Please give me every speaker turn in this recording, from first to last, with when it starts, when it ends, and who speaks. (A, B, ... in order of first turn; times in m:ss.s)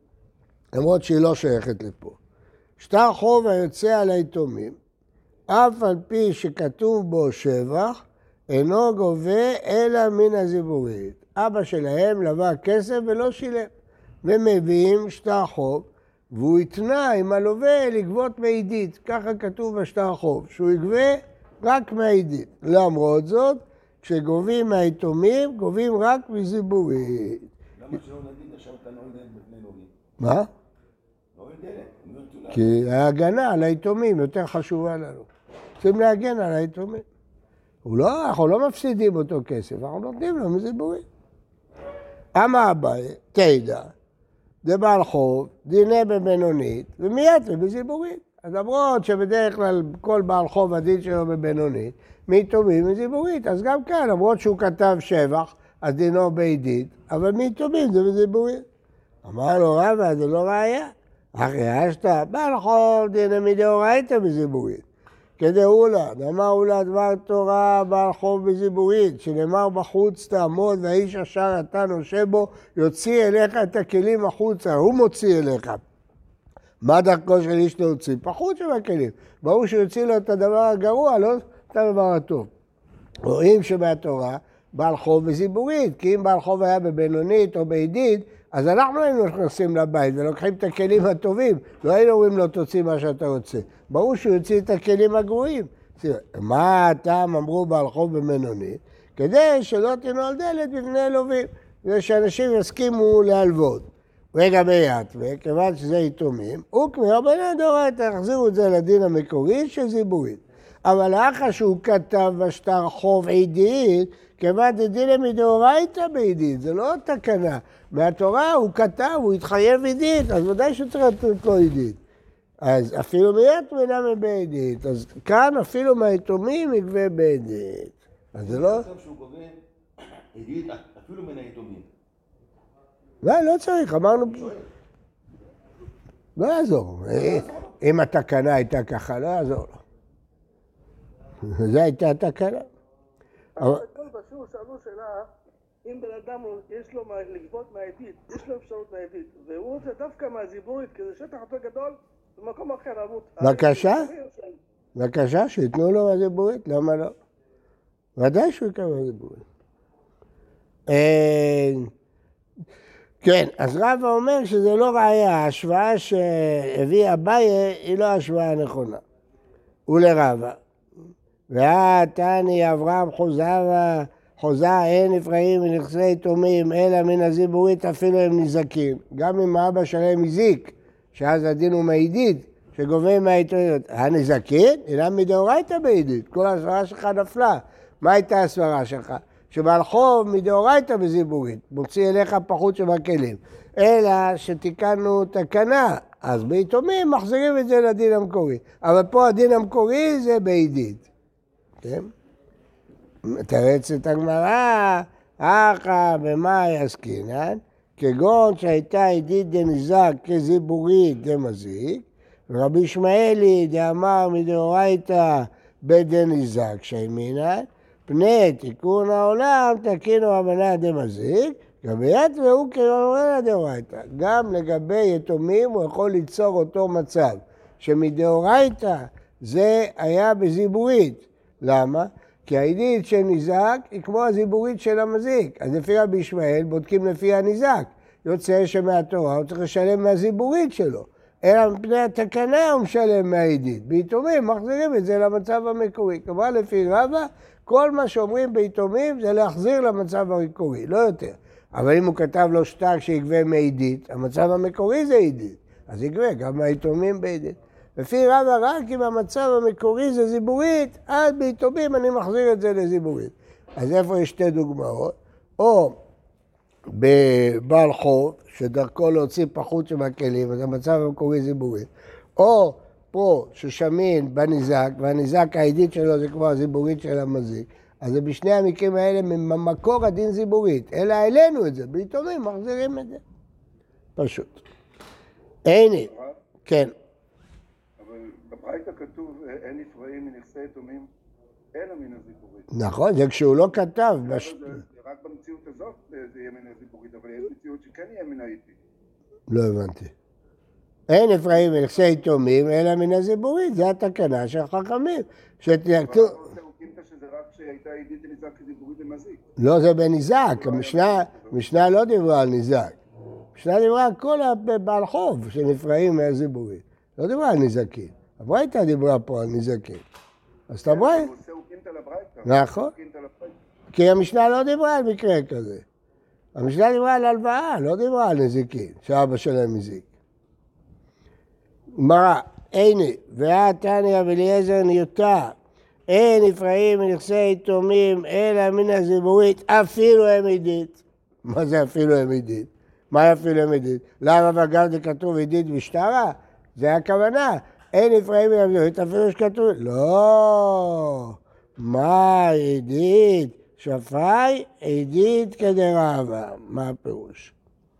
0:00.7-0:02.2 A
0:02.8-0:04.8 A
0:05.5-0:13.7 A
0:14.2-0:27.5 A
0:27.8-0:29.9 B
0:30.2-0:30.5 A
0:31.4-0:32.8 B
0:32.5-0:35.3 A
0:35.8-0:37.0 A
0:37.8-0:41.0 A
0:42.4-0:43.9 A
0:44.6-0:58.6 A
0:59.2-1:04.8 A
1:05.4-1:15.8 A
1:16.8-1:22.5 A
1:23.2-2:02.0 A
2:02.6-2:08.9 A
2:08.4-2:11.9 B
2:13.2-2:14.5 A
2:14.2-2:14.7 B
2:16.4-2:19.8 A
2:17.1-2:17.8 B
2:21.4-2:22.7 A
2:23.6-2:25.3 C
2:25.8-2:34.6 C
2:33.4-2:34.1 A
2:35.0-2:37.1 A
2:38.2-2:39.4 A
2:40.9-2:41.9 A
2:43.2-2:49.0 A
2:49.9-2:50.6 A
2:51.5-3:21.1 A
3:21.8-3:22.1 A
3:23.2-4:26.0 A
4:26.9-4:43.2 A
4:44.2-4:44.6 A
4:45.7-4:46.1 A
4:46.1-4:46.4 D
4:46.6-4:46.9 A
4:48.0-4:51.1 D
4:51.7-4:52.7 D
4:52.7-4:54.6 A
4:54.2-4:58.8 D
4:59.5-5:00.1 A
5:01.1-5:06.4 A
5:06.0-5:09.5 D
5:09.6-5:13.0 A
5:10.5-5:11.6 D
5:13.6-5:20.0 A
5:20.7-5:21.3 A
5:20.9-5:23.6 D
5:22.4-5:22.9 A
5:23.9-5:25.8 A
5:26.6-5:30.1 A
5:32.0-5:35.6 A
5:36.1-5:57.5 A